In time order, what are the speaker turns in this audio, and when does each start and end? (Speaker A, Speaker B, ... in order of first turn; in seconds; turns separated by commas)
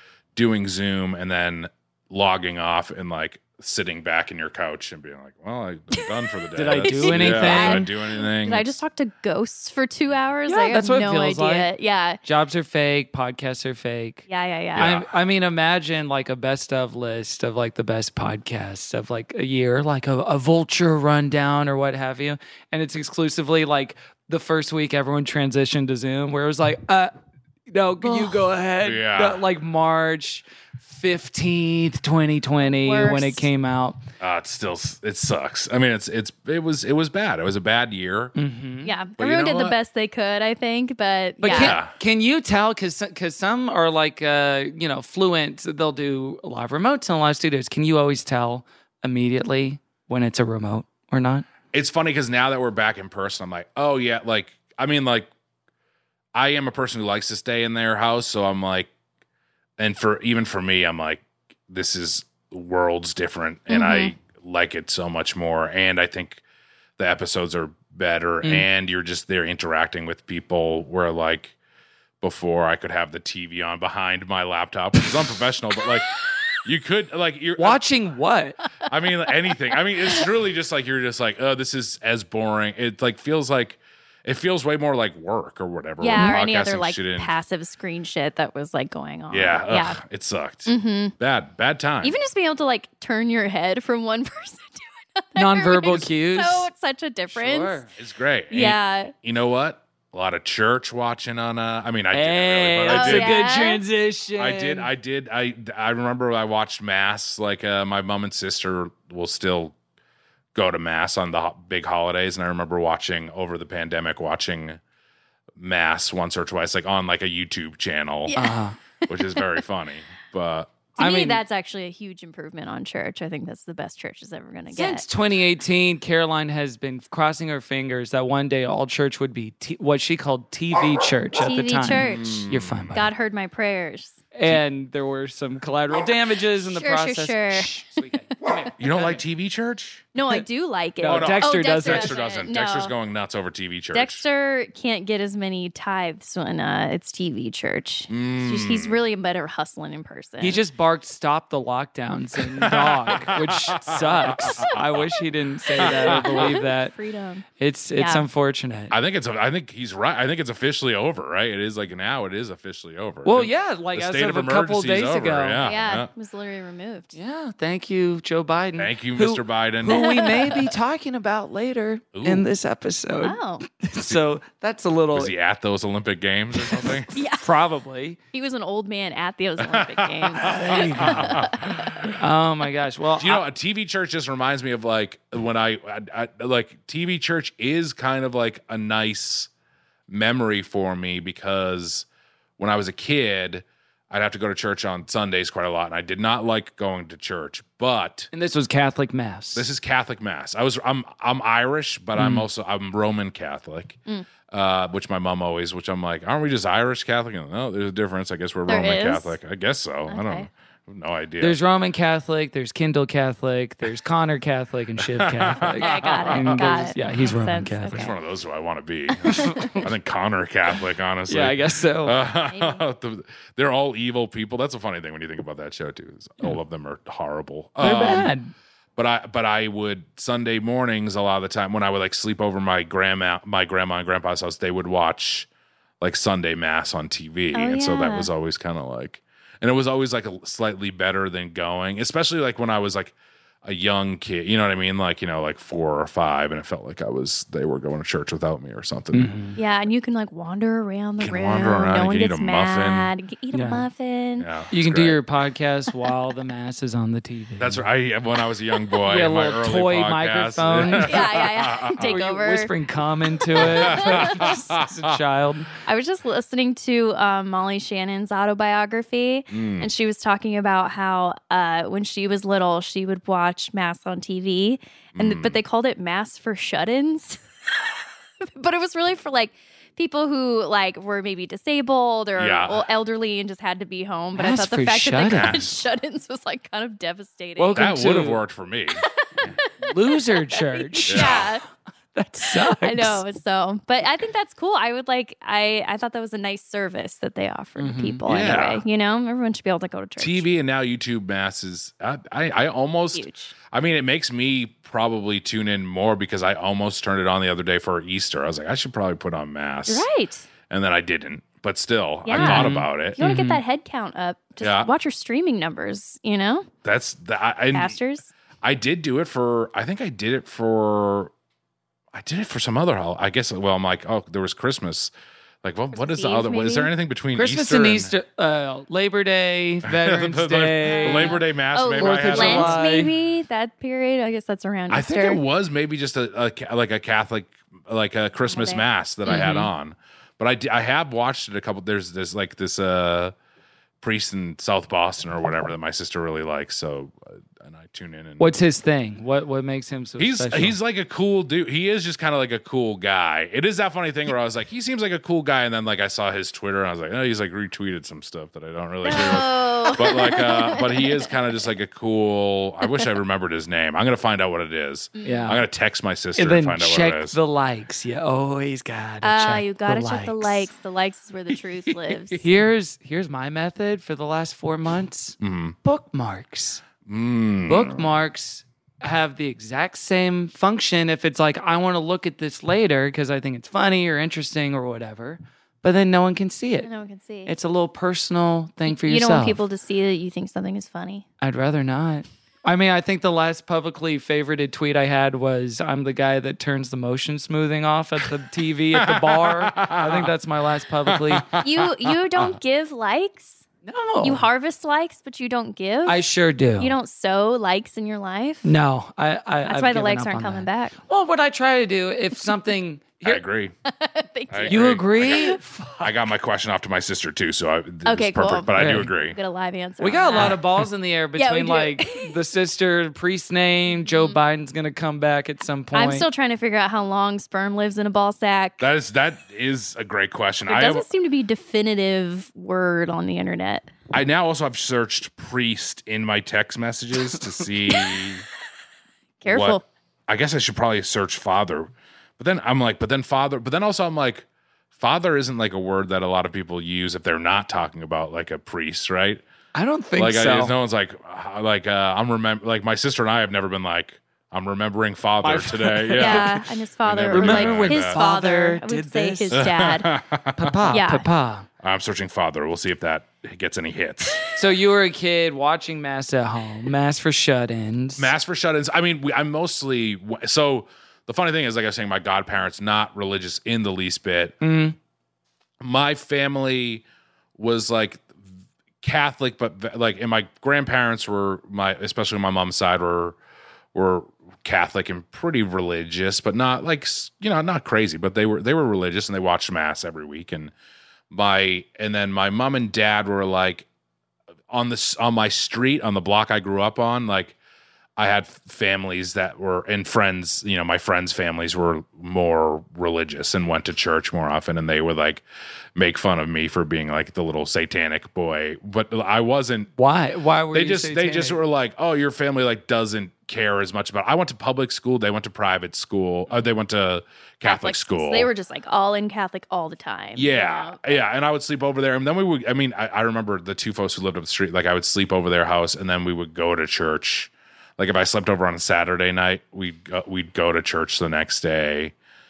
Speaker A: 0.3-8.7, Speaker B: 6.6-7.9, Speaker C: 6.7-12.2, Speaker B: 10.5-11.7, Speaker B: 12.2-14.3, Speaker C: 14.3-14.9, Speaker A: 14.8-15.1, Speaker B: 14.8-27.1, Speaker B: 27.7-34.0, Speaker A: 28.8-29.4, Speaker C: 32.7-33.5, Speaker A: 34.2-38.3, Speaker B: 38.4-38.9, Speaker C: 38.8-41.8, Speaker A: 39.2-39.8, Speaker B: 41.4-51.5, Speaker A: 41.5-41.9, Speaker A: 51.7-55.3, Speaker A: 56.3-58.9, Speaker A: 59.8-66.4, Speaker C: 63.7-64.1, Speaker A: 67.0-71.6, Speaker A: 72.2-77.8, Speaker B: 77.6-78.6, Speaker A: 78.9-87.3, Speaker C: 86.0-90.0, Speaker A: 89.3-92.2, Speaker C: 90.7-91.2, Speaker C: 92.0-97.8, Speaker B: 95.4-96.7, Speaker B: 97.3-97.9, Speaker A: 98.0-103.4, Speaker C: 98.5-99.1, Speaker B: 102.1-104.9, Speaker C: 102.9-103.8, Speaker A: 104.4-109.8, Speaker A: 110.5-114.8, Speaker A: 115.6-118.3, Speaker C: 118.3-118.6, Speaker B: 118.4-118.8, Speaker A: 119.1-120.8, Speaker C: 119.1-119.4, Speaker C: 121.0-125.0, Speaker B: 121.0-121.4, Speaker B: 124.7-133.1, Speaker C: 131.4-134.1, Speaker A: 131.9-133.1, Speaker B: 134.3-139.2, Speaker C: 136.6-137.8, Speaker A: 138.8-140.1, Speaker C: 140.1-142.9, Speaker B: 141.0-142.2, Speaker A: 141.1-144.2, Speaker C: 143.9-150.6, Speaker A: 148.1-149.0, Speaker B: 150.4-156.9, Speaker A: 152.6-155.2, Speaker C: 155.8-157.4, Speaker A: 155.8-156.5, Speaker B: 157.6-158.9, Speaker C: 158.0-158.2, Speaker A: 158.9-166.1, Speaker B: 163.2-165.6, Speaker C: 165.6-167.2, Speaker B: 167.2-175.3, Speaker A: 168.8-170.1, Speaker C: 169.9-170.3, Speaker A: 172.2-172.5, Speaker C: 173.2-173.6, Speaker A: 175.1-177.1, Speaker B: 176.6-178.2, Speaker C: 177.1-177.4, Speaker C: 178.3-181.5, Speaker A: 179.6-182.2, Speaker B: 180.4-181.4, Speaker B: 182.2-183.4, Speaker A: 183.2-189.5, Speaker A: 190.1-192.1, Speaker A: 192.6-198.3, Speaker B: 198.3-199.7, Speaker A: 199.6-204.0, Speaker B: 202.2-202.4, Speaker A: 204.5-211.6, Speaker C: 208.7-209.4, Speaker C: 210.1-210.5, Speaker B: 211.4-218.1, Speaker A: 215.2-216.9, Speaker C: 215.8-218.1, Speaker A: 217.9-228.3, Speaker C: 219.2-219.8, Speaker B: 219.4-219.9, Speaker B: 221.3-222.2, Speaker C: 222.3-222.8, Speaker B: 227.8-228.5, Speaker A: 229.0-235.5, Speaker A: 236.0-249.3, Speaker C: 237.5-238.3, Speaker B: 249.1-249.6, Speaker C: 249.6-254.5, Speaker A: 251.2-253.1, Speaker B: 253.5-253.9, Speaker A: 254.4-255.2, Speaker B: 254.7-257.9, Speaker A: 257.6-262.1, Speaker B: 259.1-261.3, Speaker C: 261.0-262.7, Speaker B: 262.0-265.7, Speaker A: 263.6-265.1, Speaker C: 263.6-264.7, Speaker C: 265.9-277.4, Speaker A: 269.5-269.9, Speaker A: 275.1-275.6, Speaker C: 278.4-287.8, Speaker A: 282.4-282.9, Speaker B: 284.4-285.6, Speaker A: 285.3-285.8, Speaker B: 287.6-288.4, Speaker A: 287.8-289.0, Speaker C: 289.0-291.6, Speaker B: 289.8-291.5, Speaker A: 291.1-291.5, Speaker B: 292.1-293.2, Speaker C: 292.7-300.5, Speaker B: 297.8-298.2, Speaker A: 298.3-298.9, Speaker A: 300.2-310.1, Speaker C: 303.1-303.5, Speaker C: 309.9-310.5, Speaker A: 310.7-313.2, Speaker C: 312.2-316.7, Speaker B: 312.3-313.6, Speaker A: 314.6-314.9, Speaker A: 316.8-318.0, Speaker C: 317.7-318.3, Speaker A: 318.6-321.3, Speaker A: 322.1-325.1, Speaker A: 325.6-328.1, Speaker C: 325.9-326.9, Speaker B: 327.4-331.4, Speaker A: 330.0-332.8, Speaker C: 330.9-335.4, Speaker B: 332.0-333.1, Speaker A: 334.9-343.3, Speaker C: 338.5-339.5, Speaker B: 339.3-339.7, Speaker A: 344.0-348.6, Speaker B: 348.4-350.8, Speaker A: 350.2-367.4, Speaker C: 359.1-361.1, Speaker C: 365.1-365.5, Speaker B: 365.2-365.7, Speaker B: 366.4-370.7, Speaker C: 369.2-372.4, Speaker B: 372.4-376.8, Speaker A: 375.4-375.8, Speaker A: 377.1-378.1, Speaker B: 377.7-386.9, Speaker C: 386.8-387.5, Speaker B: 387.5-389.6, Speaker C: 388.9-391.2, Speaker B: 391.4-401.5, Speaker A: 399.1-400.3, Speaker A: 401.1-402.5, Speaker C: 401.6-403.6, Speaker B: 403.9-404.5, Speaker C: 404.2-406.2, Speaker B: 406.1-407.0, Speaker C: 406.8-408.7, Speaker B: 408.6-413.4, Speaker C: 409.7-410.9, Speaker A: 413.2-413.7, Speaker C: 413.9-415.6, Speaker A: 414.5-415.5, Speaker B: 414.7-416.1, Speaker A: 416.0-419.4, Speaker C: 418.1-420.6, Speaker B: 418.7-419.1, Speaker B: 420.0-426.3, Speaker C: 421.4-422.3, Speaker C: 423.9-424.4, Speaker C: 425.9-428.9, Speaker A: 428.8-431.1, Speaker C: 430.7-433.9, Speaker A: 434.1-438.4, Speaker C: 439.4-439.8, Speaker A: 439.5-444.4, Speaker A: 445.0-449.4, Speaker B: 449.8-450.8, Speaker A: 450.2-458.2, Speaker B: 455.4-456.6, Speaker C: 456.2-460.1, Speaker B: 457.3-459.7, Speaker A: 459.6-460.6, Speaker B: 460.6-461.7, Speaker C: 460.9-461.3, Speaker A: 461.8-464.4, Speaker B: 464.5-468.3, Speaker A: 468.2-474.6, Speaker B: 474.6-475.0, Speaker A: 475.8-477.0, Speaker A: 477.6-478.3, Speaker A: 479.0-483.4, Speaker A: 483.9-490.7, Speaker A: 491.3-493.9, Speaker A: 494.7-497.6, Speaker A: 498.2-505.4, Speaker A: 506.0-509.9, Speaker B: 510.0-511.6, Speaker A: 510.7-518.5, Speaker C: 517.6-521.2, Speaker A: 520.4-532.1